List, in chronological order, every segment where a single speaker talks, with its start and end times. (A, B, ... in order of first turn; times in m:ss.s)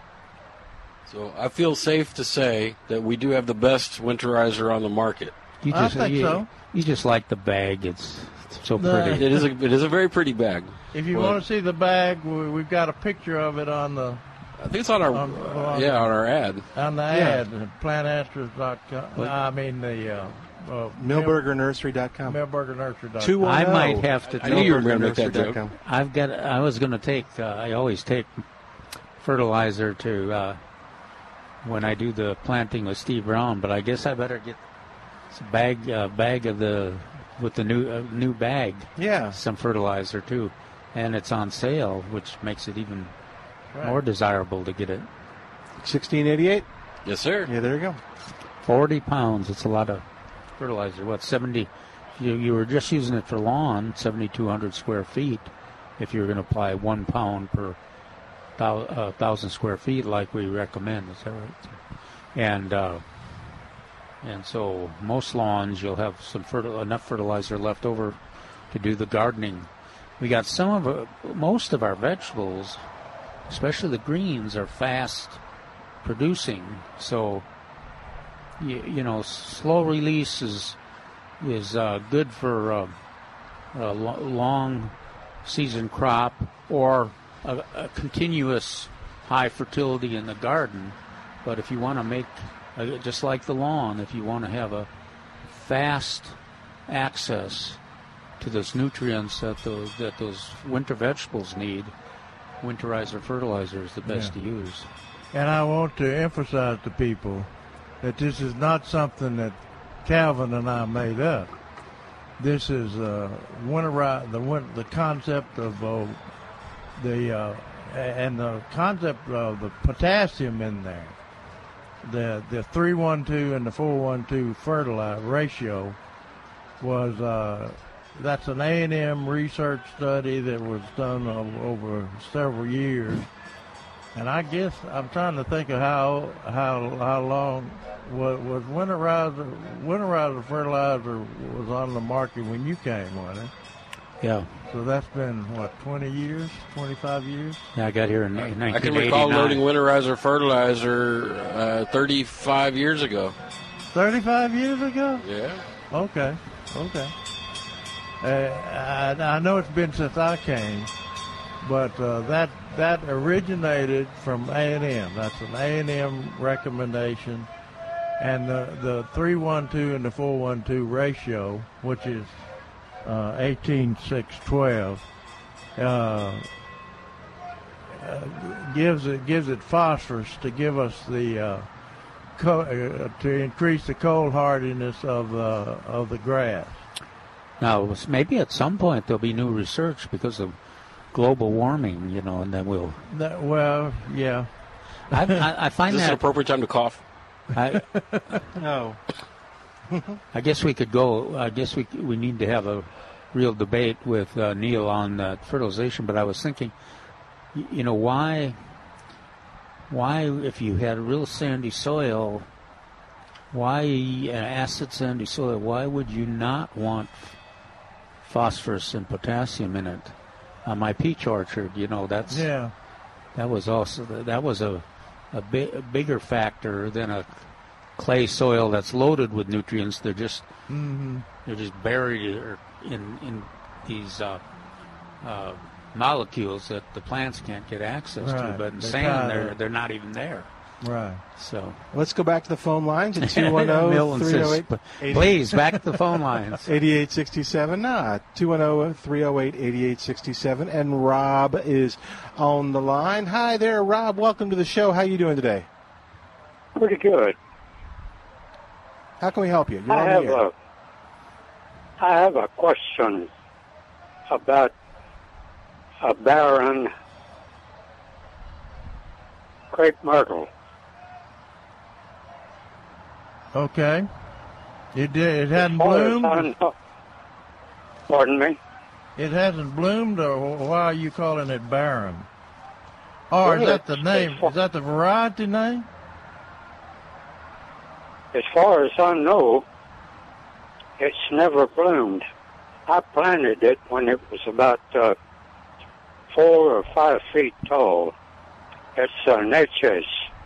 0:01.1-0:05.3 A
0:05.6-0:09.3 B
0:05.7-0:06.5 C
0:08.8-0:09.4 C
0:09.2-0:11.4 A
0:10.9-0:14.2 C
0:14.6-0:16.7 A
0:15.1-0:16.1 C
0:16.7-0:21.4 C
0:17.1-0:17.4 D
0:21.0-0:22.4 D
0:22.2-0:23.6 C
0:23.2-0:25.7 D
0:23.4-0:24.8 B
0:24.3-0:25.6 A
0:25.8-0:28.4 B
0:29.2-0:30.6 B
0:31.6-0:34.6 B
0:35.3-0:43.1 B
0:39.0-0:39.4 D
0:43.8-0:45.1 B
0:45.8-0:46.7 D
0:47.1-0:47.5 A
0:47.4-0:48.0 D
0:48.6-0:50.0 B
0:50.6-0:57.8 B
0:58.6-1:01.8 B
1:02.4-1:03.0 B
1:04.2-1:08.2 B
1:08.7-1:09.7 B
1:10.2-1:12.8 B
1:13.5-1:15.4 B
1:16.0-1:17.5 B
1:18.6-1:20.8 B
1:21.4-1:23.0 B
1:23.7-1:34.9 B
1:35.5-1:36.4 B
1:36.9-1:37.8 B
1:38.4-1:41.9 B
1:42.6-1:44.9 B
1:44.1-1:44.3 C
1:45.3-1:47.5 C
1:48.0-1:51.5 C
1:52.4-1:56.2 C
1:57.0-2:01.2 C
2:02.0-2:06.0 C
2:06.8-2:13.3 C
2:14.2-2:23.5 C
2:24.2-2:24.5 B
2:24.7-2:27.7 C
2:27.8-2:29.6 B
2:28.7-2:33.4 A
2:33.9-2:35.2 C
2:35.2-2:35.6 A
2:35.9-2:37.1 C
2:38.2-2:40.9 C
2:41.6-2:47.5 C
2:48.2-2:52.4 C
2:53.0-2:55.0 C
2:55.8-2:56.4 C
2:57.9-3:01.7 C
3:02.4-3:06.8 C
3:07.6-3:10.6 B
3:11.1-3:13.0 B
3:13.1-3:14.5 C
3:15.1-3:16.2 B
3:15.9-3:17.0 A
3:17.6-3:17.9 B
3:18.6-3:19.0 D
3:19.9-3:20.2 D
3:20.3-3:26.7 B
3:27.5-3:28.6 B
3:29.9-3:32.5 B
3:33.5-3:37.4 B
3:38.2-3:40.1 B
3:40.6-3:42.5 B
3:42.3-3:42.7 C
3:43.4-3:47.4 B
3:48.0-3:50.5 B
3:50.7-3:51.3 C
3:51.4-3:54.4 B
3:55.2-4:00.5 B
3:58.2-3:59.6 C
4:00.8-4:01.2 C
4:01.4-4:01.8 B
4:01.9-4:05.8 D
4:03.2-4:06.7 B
4:06.6-4:15.7 D
4:16.8-4:17.4 E
4:19.2-4:20.4 D
4:19.9-4:20.5 E
4:22.0-4:23.3 E
4:24.3-4:24.7 E
4:26.0-4:26.9 E
4:29.7-4:30.5 E
4:33.5-4:34.1 C
4:34.9-4:36.5 C
4:35.6-4:36.7 E
4:38.1-4:38.6 E
4:39.2-4:42.3 C
4:43.3-4:45.9 C
4:43.4-4:44.5 E
4:48.3-4:49.6 E
4:51.0-4:52.2 E
4:52.9-4:55.2 E
4:56.3-4:58.1 E
4:59.0-5:00.2 E